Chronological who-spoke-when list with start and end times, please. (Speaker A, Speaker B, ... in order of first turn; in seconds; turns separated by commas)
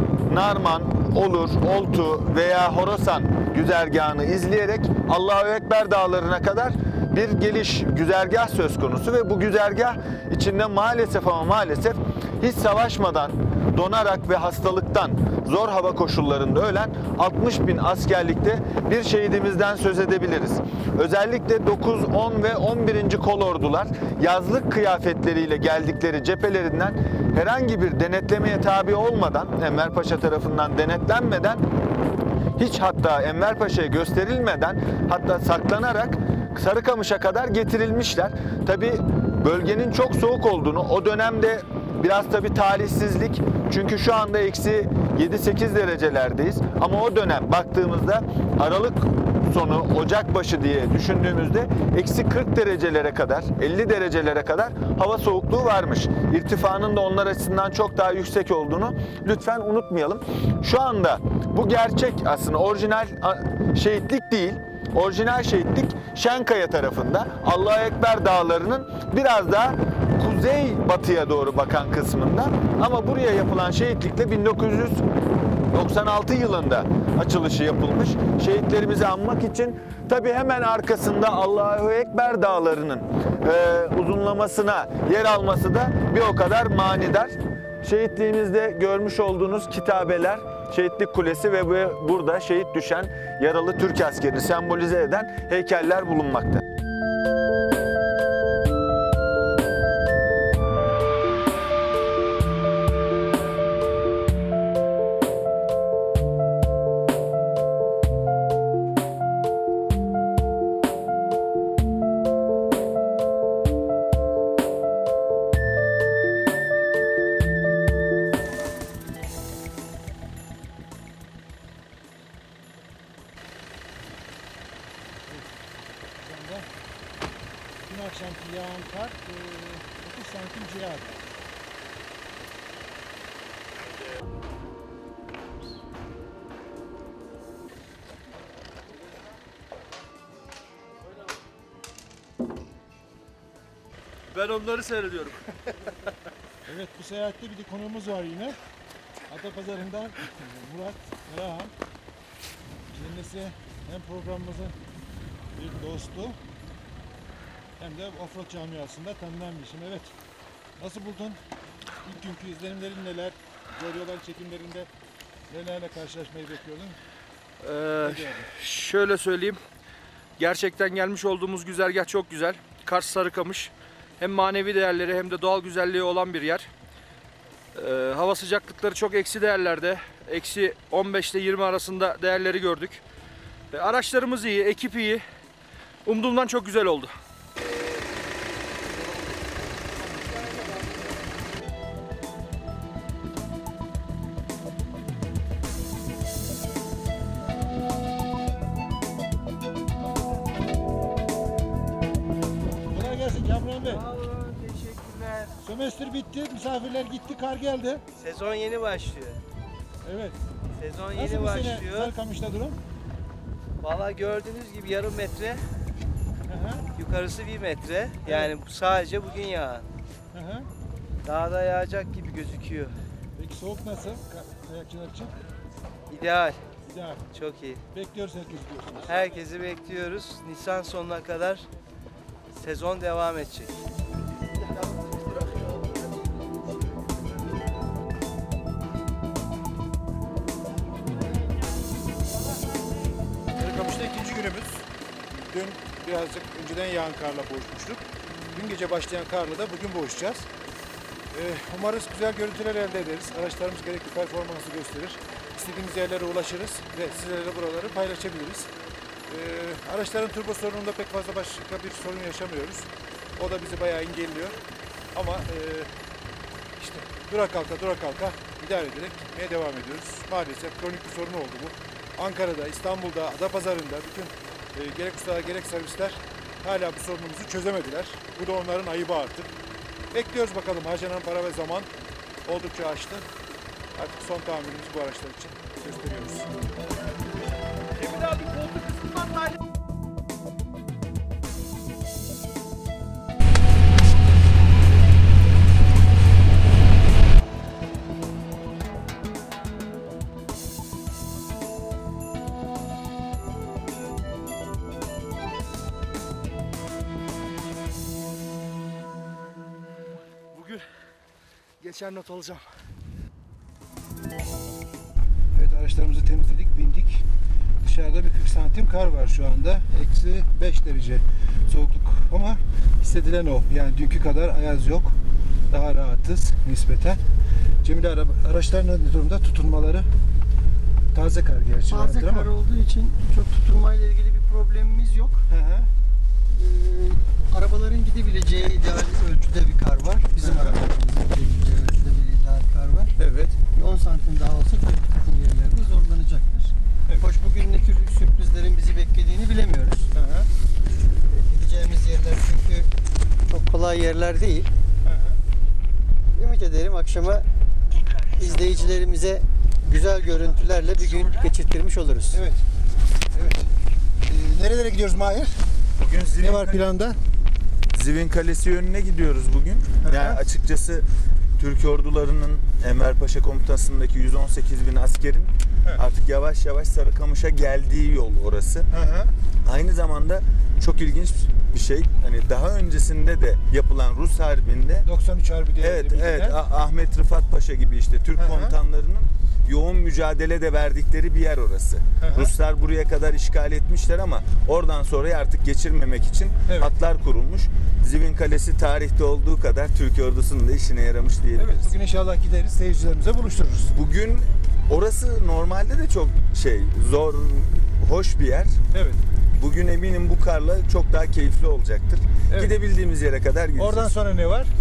Speaker A: 0.3-31.6, Speaker A: 32.6-75.0, Speaker A: 75.7-96.6, Speaker B: 125.3-125.5, Speaker B: 126.2-126.7, Speaker B: 127.8-131.3, Speaker C: 144.3-145.4, Speaker B: 146.7-148.6, Speaker B: 149.3-151.7, Speaker B: 152.9-154.8, Speaker B: 155.6-156.4, Speaker B: 157.8-160.1, Speaker B: 160.8-161.4, Speaker B: 162.0-164.9, Speaker B: 165.5-166.9, Speaker C: 167.6-169.6, Speaker B: 168.0-168.5, Speaker C: 170.4-176.7, Speaker C: 177.7-183.0, Speaker C: 183.7-185.2, Speaker C: 186.0-187.1, Speaker D: 190.2-190.7, Speaker B: 202.9-204.0, Speaker D: 203.8-205.5, Speaker B: 205.6-208.0, Speaker D: 208.2-209.4, Speaker B: 210.0-210.3, Speaker D: 210.8-212.1, Speaker B: 211.1-212.8, Speaker D: 213.8-215.6, Speaker B: 216.5-216.9, Speaker D: 216.9-219.8, Speaker B: 218.2-218.5, Speaker B: 220.3-220.7, Speaker D: 221.2-222.9, Speaker B: 223.4-225.3, Speaker D: 226.1-226.6, Speaker B: 226.9-227.2, Speaker D: 227.3-227.8, Speaker B: 227.9-229.3, Speaker D: 229.1-231.6, Speaker D: 232.5-233.7, Speaker B: 243.6-244.8, Speaker B: 245.5-250.5, Speaker B: 251.3-258.7, Speaker B: 259.3-264.6, Speaker B: 265.1-265.9, Speaker B: 266.8-279.5, Speaker B: 280.1-281.9, Speaker B: 282.4-283.2, Speaker B: 283.9-286.5, Speaker B: 310.5-310.8, Speaker B: 311.8-312.6, Speaker B: 315.5-317.2, Speaker B: 317.8-325.1, Speaker B: 325.7-327.2, Speaker B: 327.8-330.1, Speaker B: 331.1-332.5, Speaker E: 331.9-335.4, Speaker B: 335.5-335.9, Speaker E: 336.5-343.1, Speaker B: 340.4-340.8, Speaker B: 343.2-343.6, Speaker E: 343.7-350.1, Speaker B: 350.1-350.5, Speaker E: 351.3-352.9, Speaker E: 353.4-354.7, Speaker B: 355.0-355.4, Speaker E: 356.3-357.4, Speaker E: 358.2-362.4, Speaker B: 362.3-362.6, Speaker B: 363.3-363.7, Speaker B: 364.2-365.6, Speaker A: 366.0-366.8, Speaker B: 366.4-367.2, Speaker A: 367.9-371.1, Speaker B: 370.0-370.4, Speaker A: 371.6-378.9, Speaker B: 378.9-379.3, Speaker A: 379.6-385.1, Speaker B: 385.0-386.6, Speaker A: 385.8-401.9, Speaker B: 388.4-388.8, Speaker B: 392.2-392.5, Speaker B: 401.6-403.9, Speaker A: 403.9-408.8, Speaker B: 408.9-409.2, Speaker A: 409.5-414.1, Speaker B: 412.5-412.7, Speaker B: 413.8-414.7